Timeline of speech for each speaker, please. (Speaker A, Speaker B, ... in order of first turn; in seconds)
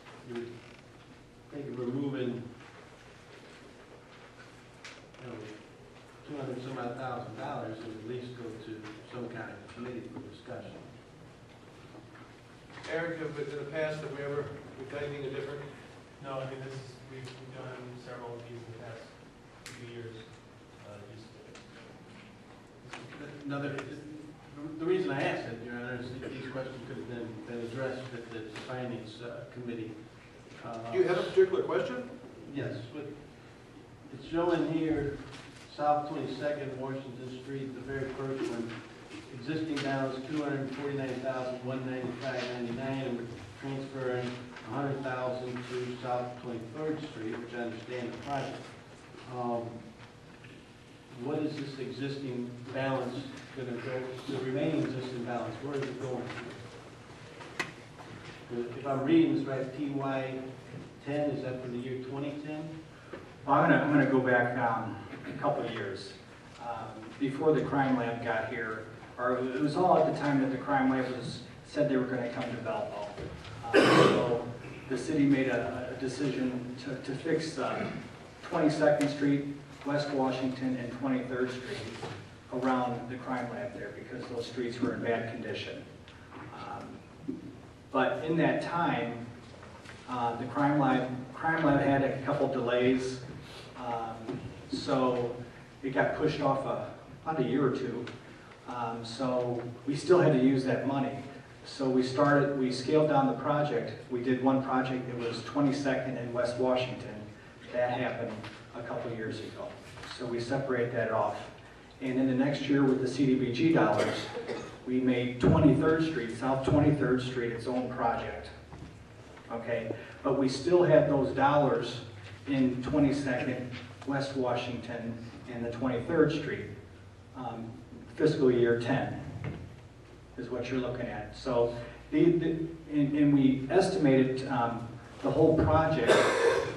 Speaker A: 0.2-2.4, 5.2-10.9, 22.9-31.3, 32.4-33.2, 34.1-38.7, 39.2-49.9, 51.1-56.6, 58.5-60.4, 61.0-62.7
Speaker B: 12.8-15.7, 30.9-32.1
Speaker C: 16.2-21.7
Speaker D: 63.4-85.8, 86.5-87.0, 87.9-89.2, 90.1-93.2, 93.7-98.1, 98.6-114.3, 114.8-118.5, 119.5-126.7, 127.3-129.2, 130.3-136.5